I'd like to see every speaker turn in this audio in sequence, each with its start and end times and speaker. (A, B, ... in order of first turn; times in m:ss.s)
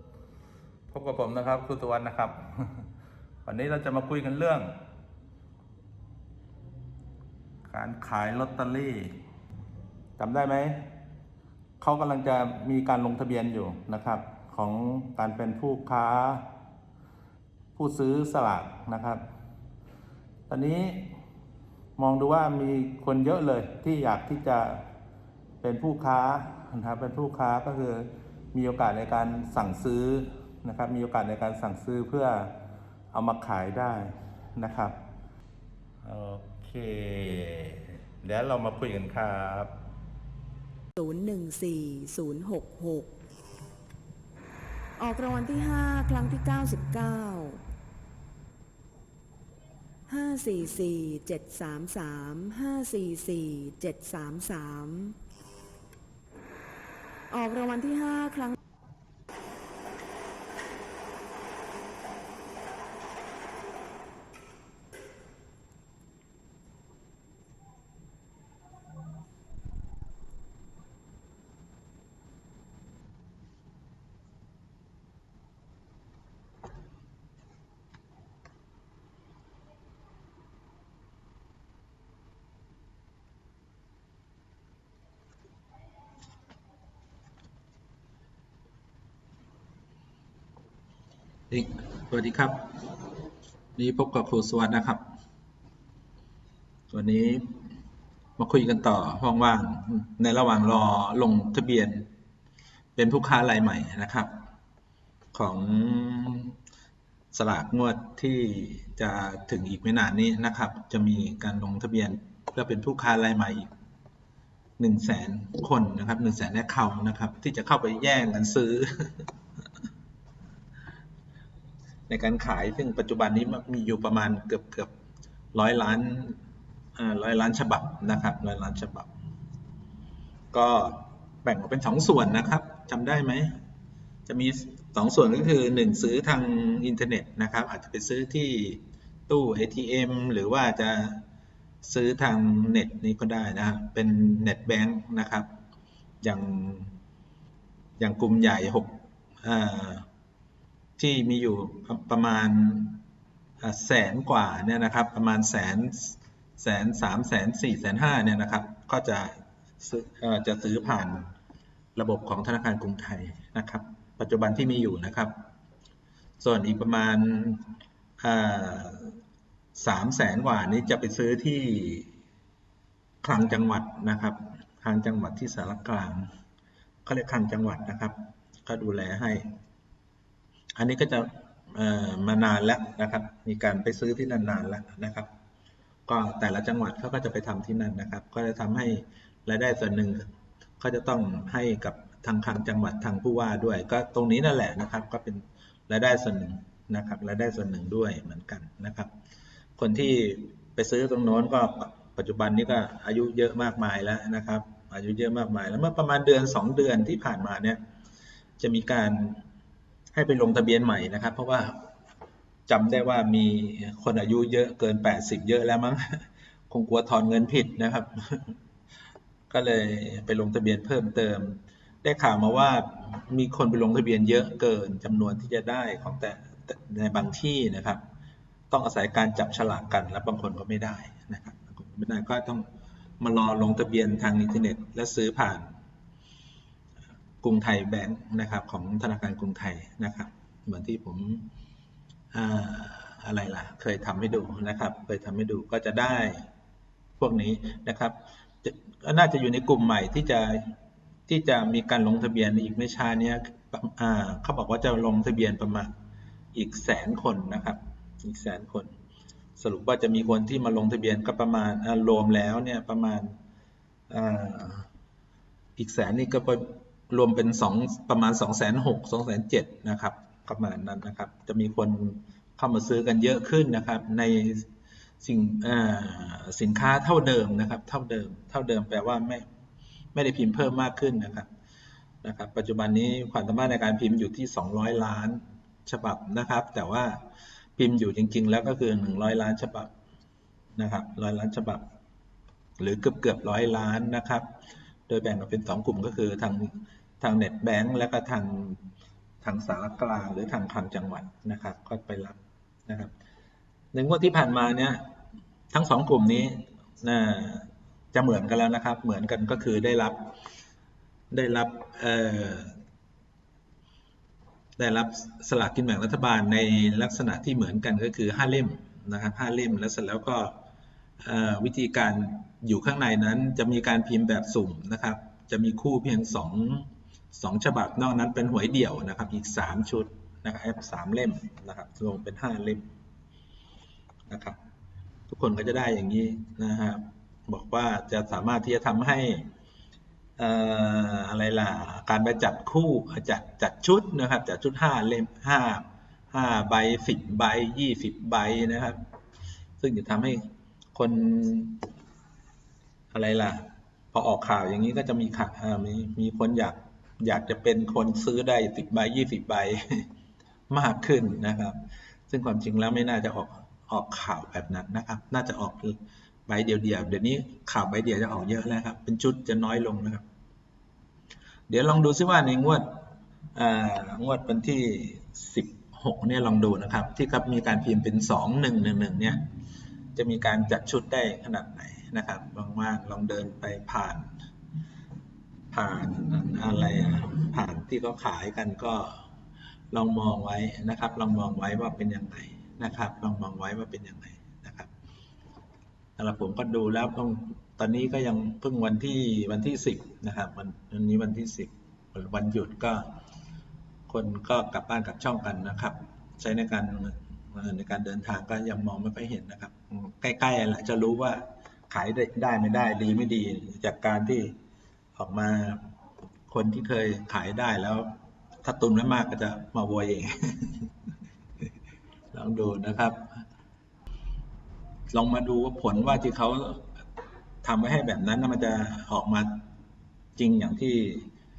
0:00.9-0:02.4 A
0:01.8-0:02.2 B
0:03.5-0:04.6 A
0:03.8-0:04.4 B
0:07.7-0:09.0 A
0:10.2-0:10.6 A
0:11.8-0:16.2 A
0:12.2-0:12.5 B
0:13.2-0:14.4 B
0:15.9-0:16.3 B
0:17.8-0:18.9 A
0:18.1-0:19.2 B
0:20.5-0:20.8 A
0:22.0-0:24.7 A
0:22.1-0:24.6 B
0:25.6-0:28.0 A
0:25.9-0:27.2 B
0:28.6-0:32.3 A
0:28.9-0:29.5 B
0:32.0-0:32.4 B
0:33.1-0:34.0 A
0:34.6-0:34.9 A
0:36.1-0:37.7 A
0:38.2-0:39.7 A
0:38.8-0:39.0 B
0:41.0-0:43.1 C
0:45.0-0:47.6 C
0:50.1-0:55.2 C
0:57.3-0:58.6 C
1:31.5-1:33.1 B
1:33.8-1:35.0 B
1:36.9-1:37.5 B
1:38.4-1:42.1 B
1:43.0-1:44.3 B
1:45.3-1:46.6 B
1:47.3-1:53.7 B
1:54.8-1:59.3 B
2:02.1-2:04.9 B
2:05.5-2:06.4 B
2:07.0-2:09.1 B
2:10.5-2:13.5 B
2:14.3-2:21.2 B
2:21.8-2:25.5 B
2:26.2-2:27.0 B
2:28.0-2:30.1 B
2:31.0-2:33.0 B
2:33.6-2:41.3 B
2:42.0-2:45.4 B
2:46.4-2:49.2 B
2:49.8-2:52.1 B
2:53.2-2:56.3 B
2:57.0-2:59.4 B
3:00.8-3:05.3 B
3:06.1-3:10.3 B
3:10.8-3:19.1 B
3:19.8-3:27.8 B
3:28.6-3:29.4 B
3:30.1-3:31.8 B
3:32.7-3:38.6 B
3:39.5-3:48.0 B
3:48.7-3:52.7 B
3:53.2-3:55.7 B
3:57.4-4:01.5 B
4:02.3-4:06.5 B
4:07.2-4:10.8 B
4:11.3-4:15.9 B
4:16.5-4:18.9 B
4:19.6-4:23.4 B
4:24.1-4:24.9 B
4:25.8-4:34.7 B
4:35.2-4:39.5 B
4:40.1-4:41.5 B
4:42.2-4:47.2 B
4:47.8-4:49.9 B
4:50.8-4:51.8 B
4:52.8-4:54.5 B
4:55.1-4:58.8 B
4:59.4-5:03.1 B
5:03.9-5:05.0 B
5:05.7-5:10.3 B
5:11.3-5:12.8 B
5:14.8-5:20.6 B
5:21.2-5:32.9 B
5:34.3-5:34.6 B
5:35.3-5:39.5 B
5:40.4-5:49.0 B
5:49.8-5:51.9 B
5:53.1-6:00.1 B
6:00.7-6:10.2 B
6:11.7-6:12.9 B
6:13.5-6:19.4 B
6:20.2-6:24.3 B
6:25.7-6:29.2 B
6:29.9-6:34.9 B
6:36.2-6:43.1 B
6:44.1-6:54.5 B
6:55.2-6:55.8 B
6:56.5-6:58.1 B
6:58.6-7:00.9 B
7:02.3-7:03.4 B
7:05.1-7:06.9 B
7:07.6-7:09.5 B
7:10.4-7:11.3 B